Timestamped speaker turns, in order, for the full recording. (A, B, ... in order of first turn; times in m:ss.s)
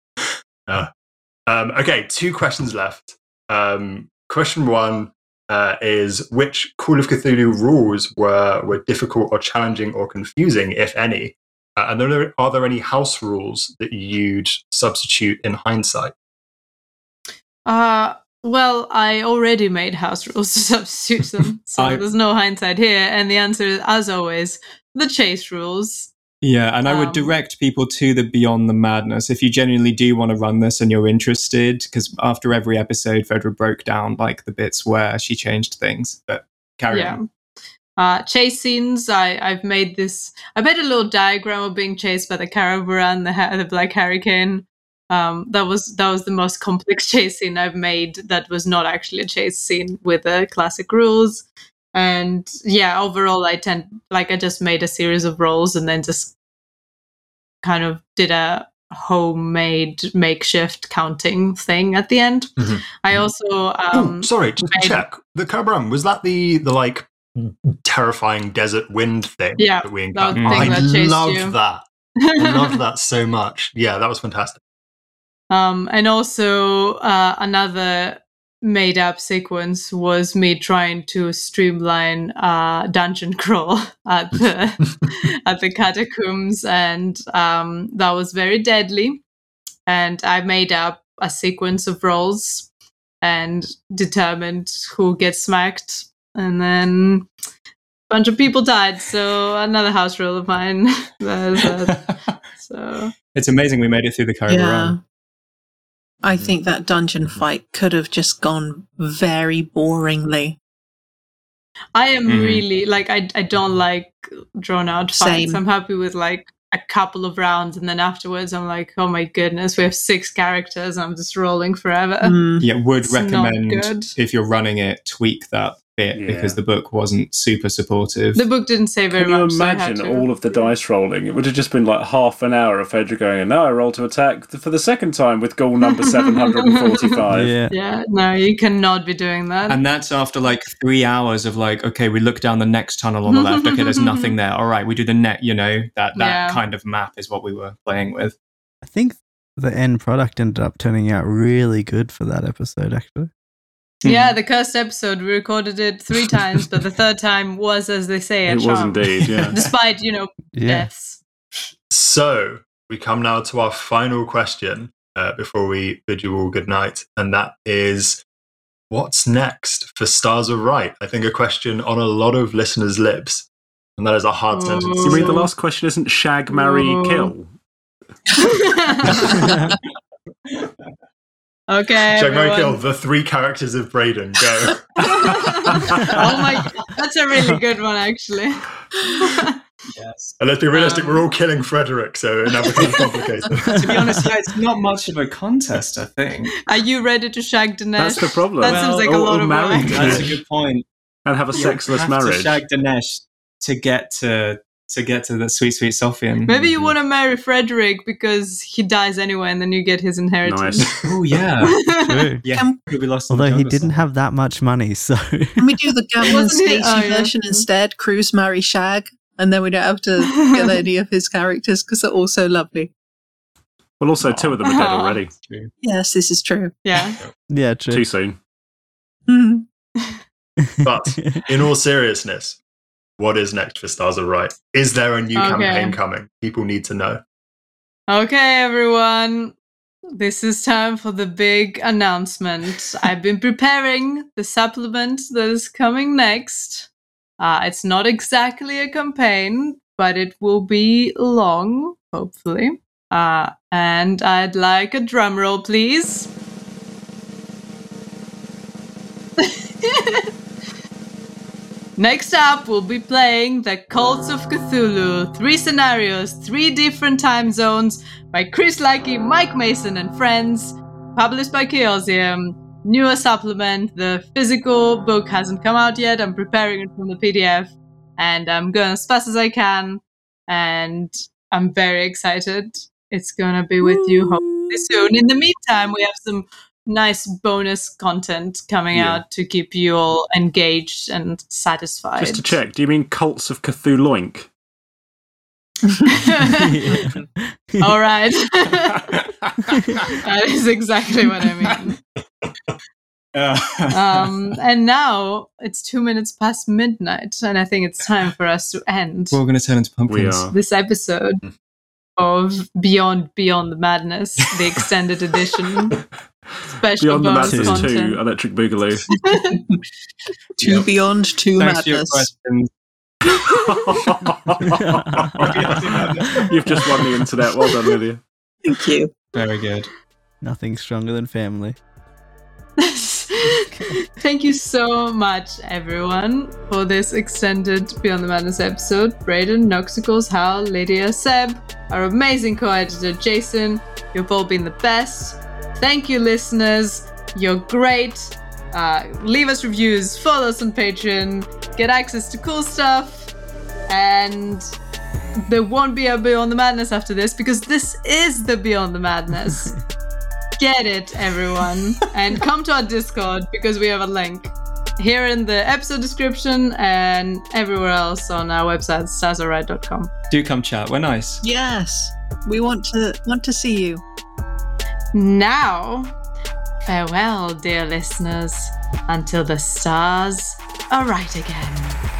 0:01.5-0:16.1 A
0:17.7-0:26.1 B
0:21.8-0:22.1 C
0:26.4-0:37.2 C
0:26.9-0:27.3 B
0:36.9-0:37.2 B
0:38.0-0:56.3 B
0:57.6-1:05.0 B
1:02.6-1:03.2 A
1:03.9-1:14.6 A
1:09.6-1:11.6 B
1:10.4-1:10.8 C
1:12.3-1:12.8 B
1:15.5-1:29.2 B
1:29.9-1:32.7 B
1:33.2-1:37.3 B
1:38.1-1:43.1 B
1:43.3-1:45.0 C
1:44.5-1:45.0 D
1:46.2-1:50.6 D
1:52.0-2:02.4 B
1:52.3-1:52.6 C
1:55.1-1:55.6 D
2:02.2-2:02.7 D
2:02.6-2:08.4 C
2:03.0-2:04.1 B
2:06.1-2:06.6 E
2:08.4-2:10.7 B
2:09.1-2:17.5 E
2:16.1-2:17.2 B
2:17.3-2:17.7 F
2:17.7-2:19.8 B
2:19.7-2:28.4 C
2:23.3-2:24.3 B
2:26.2-2:26.6 B
2:28.8-2:33.3 F
2:34.0-2:34.4 C
2:34.0-2:41.2 B
2:38.5-2:39.6 E
2:40.5-2:40.9 F
2:41.9-2:48.2 A
2:48.9-2:55.5 A
2:54.5-2:55.5 B
2:55.0-2:57.5 E
2:56.5-2:57.3 B
2:58.4-2:59.4 B
3:01.7-3:02.8 B
3:02.1-3:06.2 A
3:05.1-3:09.6 B
3:06.0-3:06.2 C
3:09.9-3:11.2 C
3:10.4-3:13.9 A
3:13.7-3:16.5 C
3:16.7-3:20.3 B
3:18.0-3:20.4 E
3:18.6-3:19.1 C
3:19.8-3:20.9 C
3:21.3-3:22.6 E
3:21.5-3:27.0 C
3:26.5-3:30.9 B
3:30.4-3:30.9 E
3:30.8-3:31.1 A
3:31.0-3:34.1 C
3:31.9-3:32.4 F
3:32.5-3:32.8 D
3:33.3-3:35.9 F
3:35.6-3:42.9 D
3:36.2-3:37.7 B
3:40.2-3:40.8 B
3:44.0-3:45.3 E
3:44.2-3:44.6 C
3:44.6-3:45.2 B
3:45.4-3:45.7 C
3:45.8-3:46.8 D
3:46.8-3:47.2 B
3:47.5-3:48.1 F
3:47.9-3:48.4 E
3:49.3-3:49.6 D
3:50.8-3:51.5 F
3:50.8-3:52.6 A
3:53.2-3:57.2 A
3:55.4-3:56.0 B
3:58.1-3:59.6 B
4:00.2-4:16.3 B
4:19.4-4:20.3 B
4:22.0-4:52.6 B
4:48.9-4:49.2 E
4:52.2-4:54.5 E
4:56.1-4:57.1 B
4:56.4-4:57.9 F
4:57.8-4:59.0 B
5:00.1-5:02.0 B
5:03.4-5:04.3 C
5:03.9-5:09.4 B
5:09.3-5:10.5 C
5:10.1-5:10.5 E
5:10.5-5:11.4 B
5:12.2-5:16.0 B
5:16.8-5:18.2 B
5:17.0-5:19.1 E
5:17.5-5:17.9 F
5:19.2-5:19.6 B
5:20.6-5:22.3 D
5:21.6-5:22.7 C
5:23.5-5:25.8 E
5:25.0-5:25.6 F
5:25.4-5:27.1 C
5:26.3-5:28.2 E
5:28.6-5:29.1 D
5:29.3-5:29.9 C
5:30.4-5:31.8 F
5:32.8-5:53.3 B
5:53.9-5:54.7 B
5:55.5-5:59.7 B
6:00.6-6:10.1 B
6:10.3-6:11.4 C
6:11.4-6:14.0 D
6:15.1-6:16.1 B
6:16.9-6:22.0 B